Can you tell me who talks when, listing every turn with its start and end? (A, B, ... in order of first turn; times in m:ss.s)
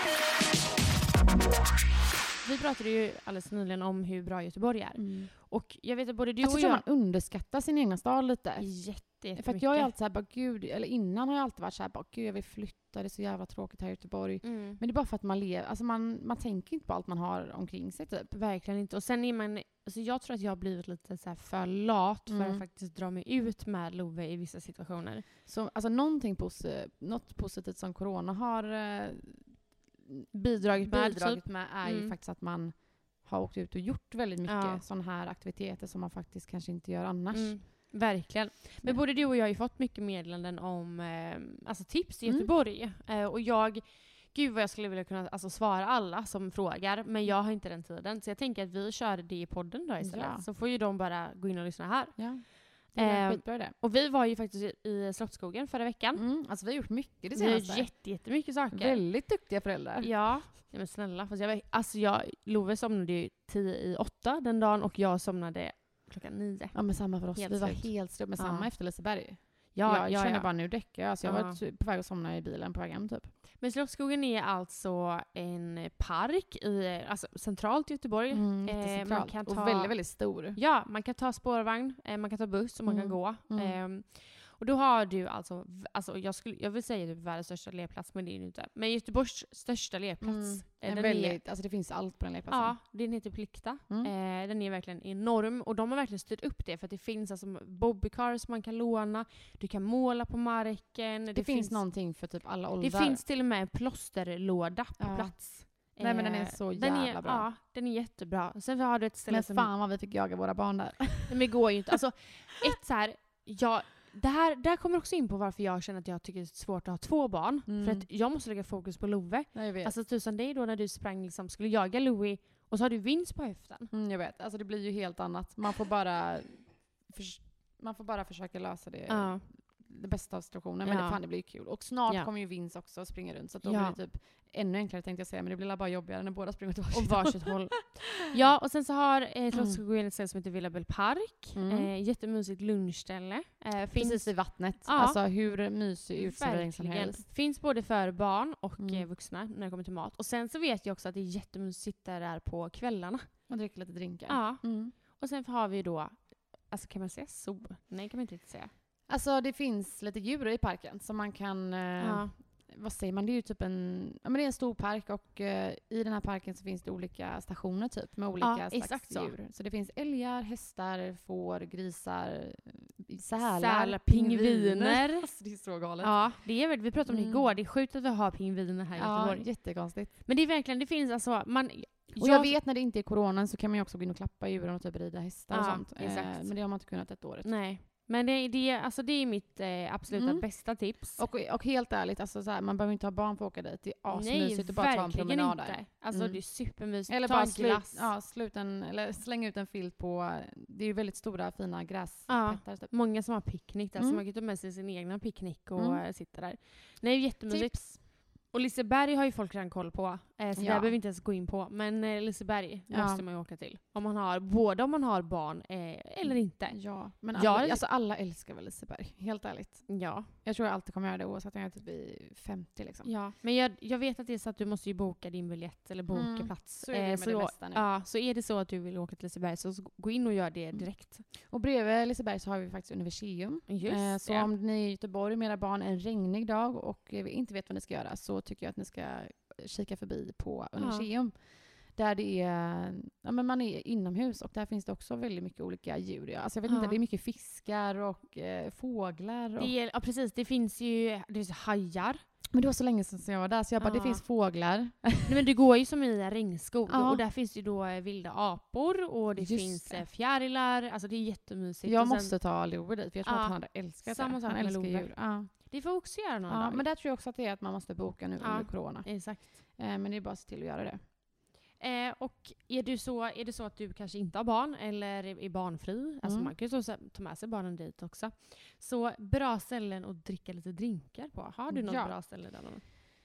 0:02.4-0:06.8 A
0:05.0-0:05.3 B
0:06.4-0:18.3 B
0:08.6-0:09.9 A
0:14.4-0:14.8 A
0:18.3-0:25.2 A
0:22.3-0:22.6 B
0:25.5-0:38.0 B
0:30.3-0:32.1 A
0:34.5-0:34.8 A
0:37.3-0:56.2 A
0:42.3-0:42.5 B
0:50.0-0:50.4 B
0:52.2-0:53.8 B
0:56.2-0:58.1 B
0:57.4-0:59.0 A
0:58.7-1:00.1 B
1:00.0-1:08.7 A
1:06.7-1:13.3 B
1:09.7-1:11.6 A
1:13.6-1:31.4 A
1:18.3-1:20.6 B
1:22.9-1:23.8 B
1:30.2-1:32.8 B
1:32.5-1:41.9 A
1:41.3-1:43.2 B
1:42.8-1:49.7 A
1:45.0-1:47.5 B
1:49.3-1:51.4 B
1:51.3-2:03.9 A
1:57.7-1:58.1 B
1:59.5-1:59.9 B
2:03.9-2:18.3 B
2:09.1-2:09.4 A
2:10.8-2:11.5 A
2:13.6-2:14.0 A
2:16.9-2:25.2 A
2:19.5-2:19.8 B
2:21.6-2:21.9 B
2:24.0-2:27.2 B
2:26.2-2:33.3 A
2:28.8-2:29.1 B
2:33.5-2:34.9 B
2:34.3-2:36.2 A
2:36.7-2:38.7 A
2:39.1-2:56.4 B
2:42.0-2:42.3 A
2:48.4-2:49.3 A
2:53.4-2:55.3 A
2:56.0-3:02.6 A
2:57.1-2:57.5 B
2:59.0-3:00.1 B
3:02.2-3:07.5 B
3:05.5-3:06.6 A
3:07.4-3:11.2 A
3:10.1-3:22.9 B
3:14.1-3:18.1 A
3:22.3-3:37.8 A
3:24.0-3:24.2 B
3:25.8-3:26.0 B
3:27.5-3:28.0 B
3:30.6-3:30.9 B
3:32.9-3:33.2 B
3:36.2-3:43.1 B
3:39.9-3:40.3 A
3:43.0-3:51.2 A
3:46.1-3:47.9 B
3:50.7-4:09.7 B
3:53.7-3:54.5 A
4:00.8-4:01.1 A
4:06.7-4:07.0 A
4:09.6-4:12.2 A
4:12.5-4:15.4 B
4:13.8-4:14.2 A
4:15.3-4:22.4 A
4:16.9-4:17.2 B
4:19.4-4:20.1 B
4:21.8-4:25.8 B
4:23.2-4:26.9 A
4:26.5-4:31.0 B
4:28.4-4:29.6 A
4:31.8-4:42.8 A
4:36.2-4:36.5 B
4:41.7-4:42.2 B